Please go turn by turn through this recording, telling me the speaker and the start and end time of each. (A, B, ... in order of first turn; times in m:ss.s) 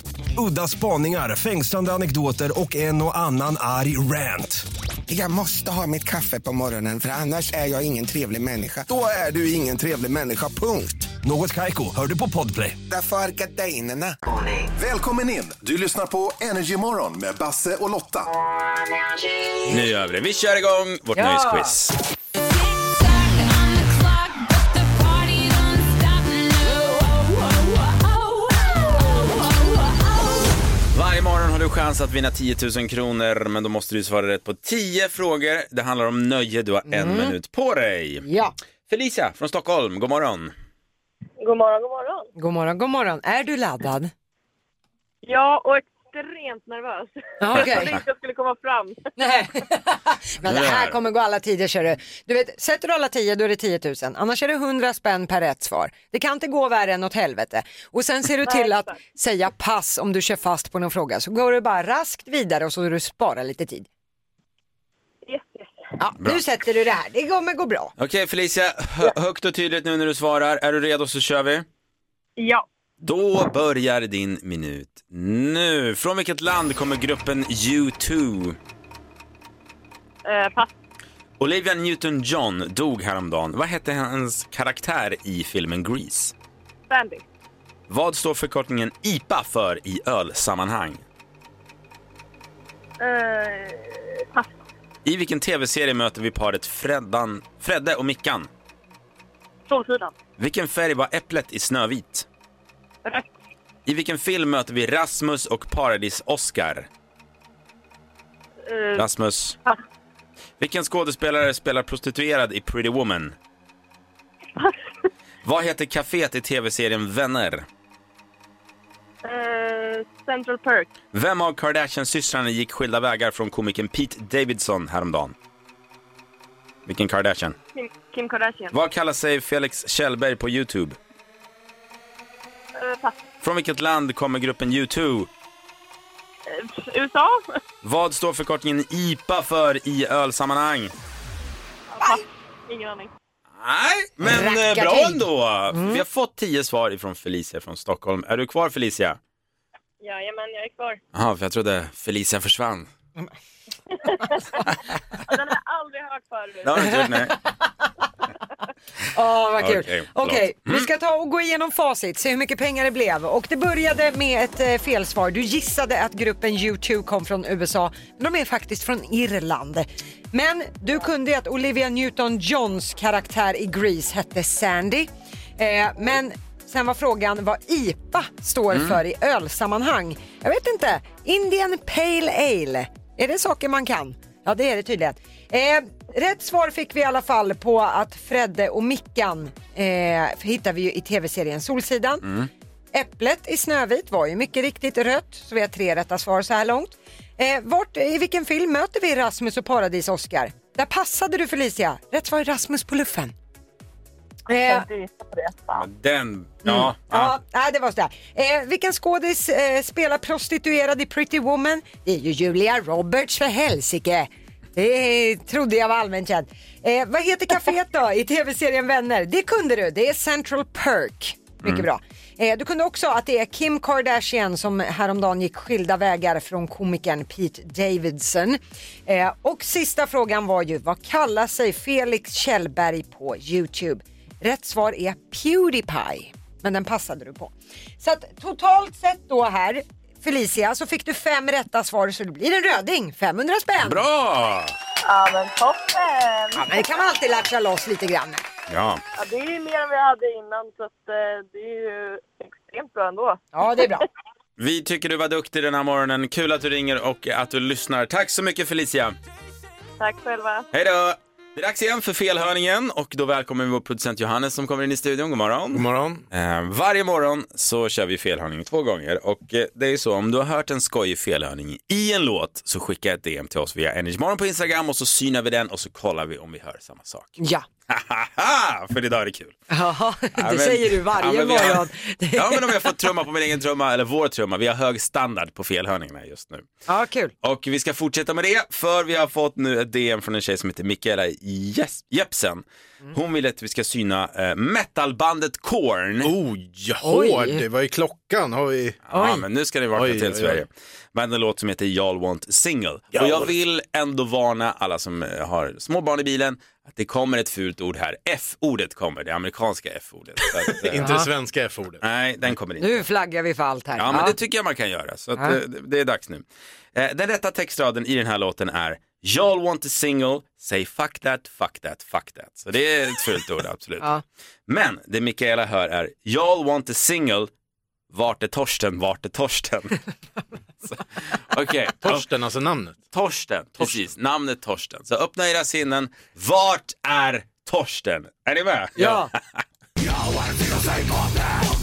0:00.4-0:04.7 A
0:05.1-0:11.1 B
0:11.2-0:12.8 A
0:12.9-0:14.2 B
0:14.8-0:18.3 C
0:19.7-0:21.9 D
0:21.2-0:21.7 E
0:30.9-0:38.3 D
0:36.9-0:37.4 E
0:38.2-0:38.6 E
0:38.9-0:40.5 D
0:41.4-0:42.3 F
0:42.4-0:44.1 E
0:45.2-0:49.1 F
0:47.4-0:48.0 E
0:49.2-1:03.9 E
0:50.5-0:51.0 D
0:58.4-0:58.9 F
1:05.2-1:05.8 F
1:06.0-1:07.9 E
1:08.0-1:11.7 D
1:12.4-1:12.6 F
1:13.0-1:18.6 D
1:20.3-1:20.7 F
1:21.4-1:26.3 D
1:26.9-1:27.2 F
1:27.9-1:31.0 D
1:33.0-1:34.5 F
1:35.0-1:38.5 D
1:39.7-1:40.1 F
1:40.4-1:42.3 D
1:43.9-1:46.9 D
1:48.7-1:49.1 F
1:49.0-1:49.6 D
1:50.6-1:53.4 D
1:55.4-1:57.7 D
1:59.2-2:00.9 F
2:01.1-2:05.4 D
2:06.9-2:07.6 D
2:07.8-2:08.8 F
2:08.7-2:11.0 D
2:12.8-2:13.2 F
2:13.4-2:15.3 D
2:16.5-2:17.6 F
2:17.8-2:20.9 D
2:21.9-2:23.1 F
2:23.6-2:29.2 D
2:24.2-2:26.0 E
2:30.0-2:31.0 F
2:31.1-2:32.9 D
2:33.9-2:34.6 F
2:35.3-2:36.9 F
2:36.6-2:37.4 D
2:36.9-2:37.7 E
2:39.1-3:12.3 E
2:39.6-2:40.9 D
3:12.9-3:23.3 E
3:24.5-3:24.9 E
3:24.5-3:25.8 F
3:25.7-3:27.4 D
3:26.6-4:04.0 E
4:03.8-4:04.8 D
4:05.1-4:06.8 F
4:06.6-4:08.4 E
4:08.7-4:09.0 D
4:09.2-4:14.0 F
4:13.5-4:14.1 E
4:14.6-4:19.2 D
4:20.0-4:20.7 F
4:20.7-4:37.4 D
4:25.7-4:26.2 G
4:37.4-4:37.6 E
4:37.9-4:39.6 D
4:39.7-4:43.1 E
4:40.4-4:46.7 D
4:46.9-4:47.3 E
4:47.4-4:56.3 D
4:56.2-4:59.0 G
4:57.0-4:57.6 E
4:59.1-5:11.1 D
4:59.1-4:59.4 E
4:59.9-5:00.6 G
5:03.1-5:03.5 G
5:10.6-5:12.0 G
5:11.0-5:11.3 E
5:12.0-5:13.0 D
5:12.8-5:14.4 E
5:14.0-5:16.4 D
5:17.0-5:24.1 D
5:24.7-5:27.5 D
5:28.1-5:30.0 D
5:31.5-5:32.3 D
5:32.0-5:33.0 G
5:33.1-5:39.6 D
5:39.0-5:39.3 E